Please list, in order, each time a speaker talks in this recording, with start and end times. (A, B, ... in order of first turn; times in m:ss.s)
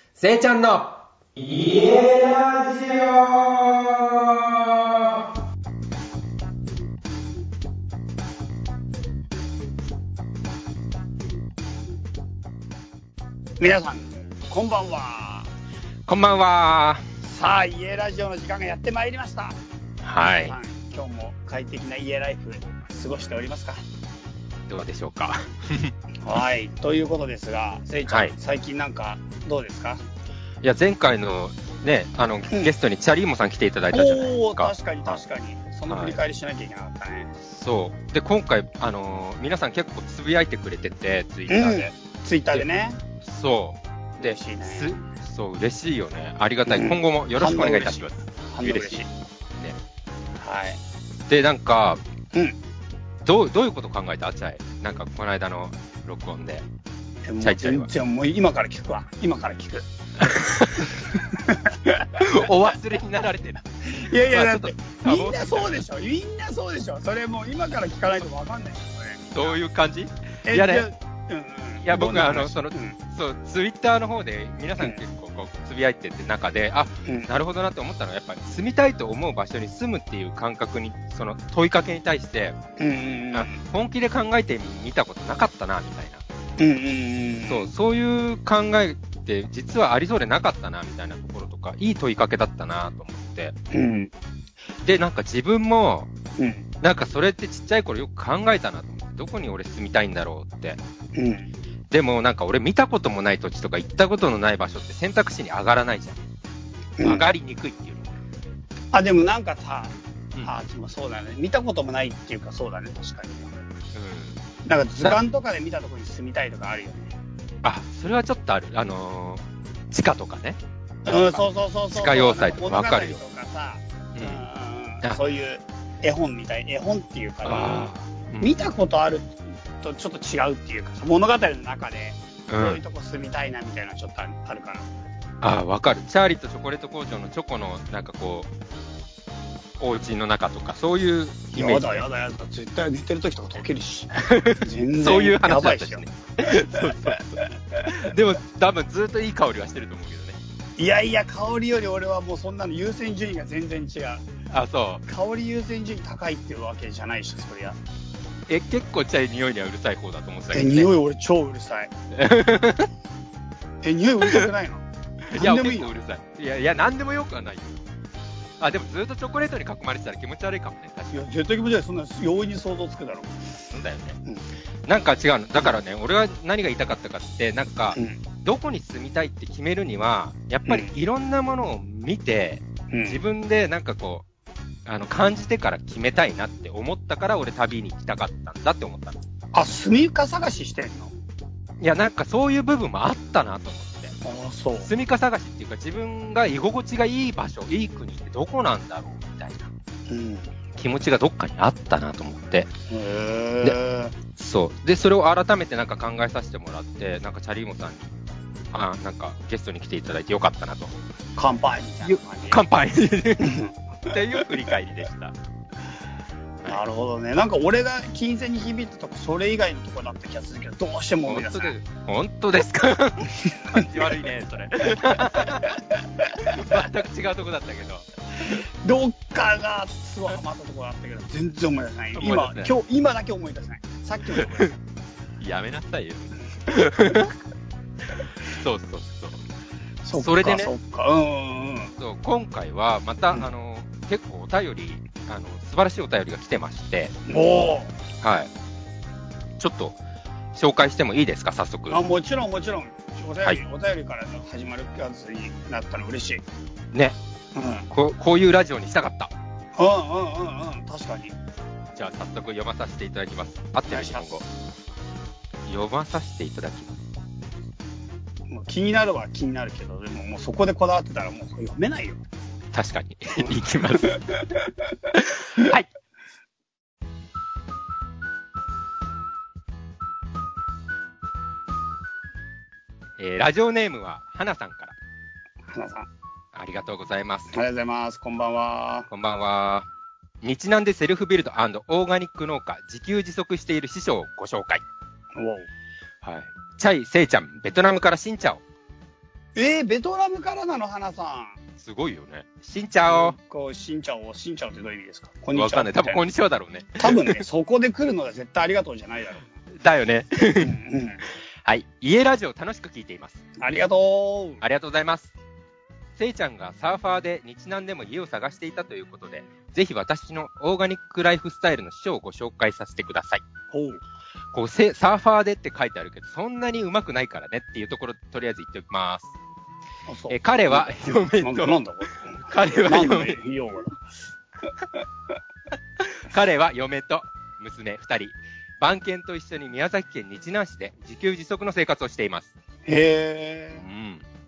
0:00.2-0:05.0 A
0:13.6-0:15.5 B
0:16.1-0:17.1 A
0:17.2-0:19.6 B
0:20.0-0:20.6 A
0:20.4-0:23.8 B
0:24.7-0:25.9 A
0:26.2-0:30.0 B
0:28.1-0:28.3 A
0:30.6-0:35.2 A
0:33.9-0:37.3 B
0:35.9-0:36.2 A
0:37.4-0:41.9 A
0:41.5-0:43.0 B
0:43.2-0:49.0 A
0:44.2-0:45.1 B
0:46.7-0:49.1 B
0:50.4-0:50.8 B
0:51.3-0:52.0 A
0:53.2-0:56.6 A
0:57.2-0:59.8 B
0:57.4-0:57.9 A
1:00.2-1:01.0 A
1:01.0-1:02.5 B
1:02.1-1:05.8 A
1:03.9-1:09.6 B
1:09.3-1:10.8 A
1:10.4-1:13.0 B
1:11.8-1:22.6 A
1:22.8-1:23.6 B
1:23.3-1:26.2 A
1:26.6-1:27.7 B
1:27.5-1:33.5 A
1:33.7-1:34.1 B
1:34.8-1:36.1 A
1:36.4-1:36.6 B
1:36.8-1:40.8 A
1:41.1-1:41.5 B
1:41.9-1:46.2 A
1:47.0-1:47.3 B
1:47.0-1:48.2 A
1:48.9-1:53.6 B
1:53.9-1:54.4 A
1:54.6-1:57.2 B
1:57.6-2:03.2 A
2:01.0-2:14.8 B
2:04.1-2:04.4 A
2:07.4-2:08.7 A
2:12.5-2:12.8 A
2:15.4-2:18.5 A
2:19.8-2:22.0 A
2:21.5-2:27.2 B
2:24.2-2:30.4 A
2:30.8-2:34.2 B
2:34.5-2:35.0 A
2:35.1-2:37.8 B
2:38.5-2:40.9 A
2:40.5-2:41.9 B
2:42.1-2:42.9 A
2:43.8-2:44.8 B
2:45.2-2:47.8 A
2:45.3-2:45.9 B
2:48.6-2:51.2 A
2:51.1-2:53.4 B
2:53.7-2:54.2 A
2:54.8-3:04.2 A
2:57.9-2:58.2 B
3:00.6-3:00.9 B
3:02.9-3:03.2 B
3:04.8-3:09.2 A
3:09.5-3:11.1 B
3:11.8-3:14.2 A
3:14.2-3:14.9 B
3:14.8-3:19.7 A
3:20.1-3:20.5 B
3:20.8-3:22.7 A
3:22.9-3:24.1 B
3:24.3-3:28.1 A
3:28.7-3:30.9 A
3:31.4-3:32.6 B
3:32.0-3:33.6 A
3:33.4-3:34.1 B
3:34.1-3:35.3 A
3:36.7-3:41.7 B
3:41.3-3:45.8 A
3:43.4-3:43.9 B
3:45.1-3:46.8 B
3:46.4-3:48.6 A
3:48.4-3:54.8 B
3:52.2-3:52.7 A
3:54.3-3:54.7 A
3:55.4-3:57.3 A
3:58.1-3:59.4 A
4:00.0-4:01.9 B
4:00.1-4:00.7 A
4:02.0-4:07.1 A
4:07.3-4:07.9 B
4:08.2-4:08.5 A
4:09.6-4:10.0 A
4:10.5-4:12.0 A
4:11.9-4:16.4 B
4:17.5-4:17.9 B
4:17.9-4:19.3 A
4:19.8-4:21.4 B
4:21.9-4:24.4 A
4:23.9-4:24.3 B
4:25.7-4:27.0 A
4:28.5-4:32.2 B
4:32.7-4:34.2 A
4:33.4-4:34.9 B
4:35.1-4:35.9 A
4:43.2-4:45.0 A
4:45.7-4:46.1 B
4:46.5-4:47.5 A
4:47.5-4:49.1 B
4:49.1-4:49.9 A
4:50.4-4:54.8 A
4:55.3-4:55.7 B
4:56.2-4:58.6 A
4:59.5-5:01.6 B
5:01.8-5:03.4 A
5:03.0-5:06.2 B
5:05.5-5:07.4 A
5:07.0-5:09.6 B
5:09.7-5:10.7 A
5:10.6-5:11.2 B
5:11.6-5:13.4 A
5:13.6-5:14.6 B
5:14.6-5:15.3 A
5:16.2-5:23.4 A
5:23.7-5:24.0 B
5:24.5-5:29.3 A
5:30.1-5:34.0 B
5:30.3-5:31.8 A
5:32.4-5:33.4 A
5:36.0-5:42.5 A
5:42.8-5:43.8 B
5:43.7-5:44.2 A